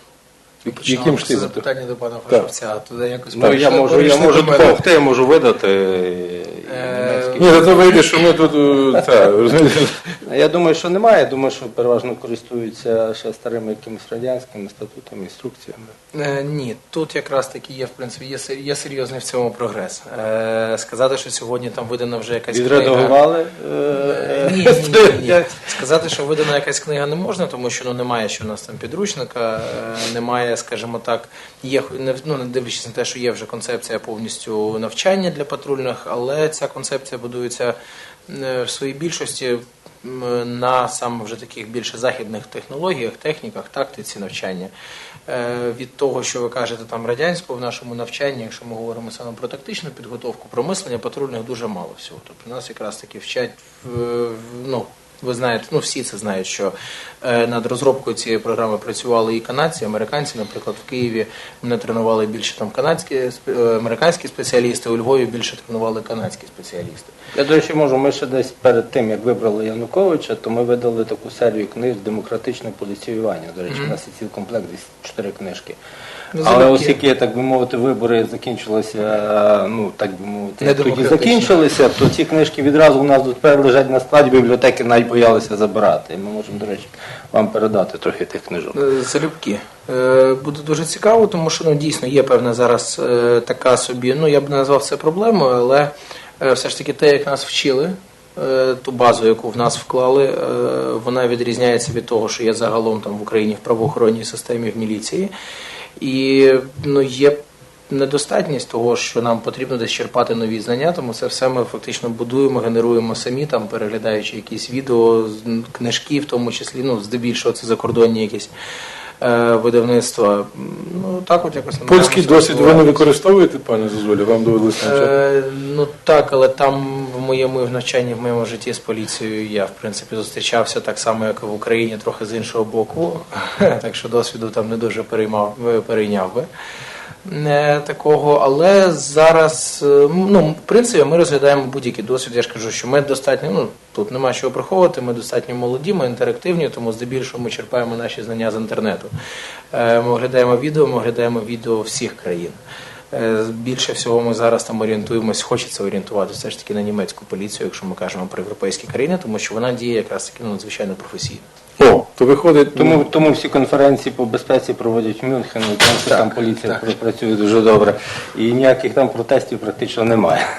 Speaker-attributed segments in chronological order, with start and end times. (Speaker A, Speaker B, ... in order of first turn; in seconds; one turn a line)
Speaker A: 0.6-1.6
Speaker B: 0.7-4.8
Speaker C: 3.3-7.9
Speaker B: 6.7-7.6
Speaker A: 7.4-10.1
Speaker C: 10.2-15.9
Speaker B: 16.1-23.2
Speaker C: 22.5-25.5
Speaker B: 23.9-37.8
Speaker B: 38.3-44.7
Speaker B: 45.3-67.1
Speaker C: 67.3-75.8
Speaker B: 73.7-74.0
Speaker B: 76.3-77.0
Speaker C: 76.4-88.8
Speaker B: 80.6-81.5
Speaker B: 88.7-105.3
Speaker B: 106.0-118.5
Speaker B: 119.2-123.0
Speaker A: 121.9-125.1
Speaker B: 124.8-136.5
Speaker B: 137.2-149.1
Speaker B: 149.7-152.6
Speaker B: 153.1-161.4
Speaker A: 161.8-163.1
Speaker C: 162.7-170.4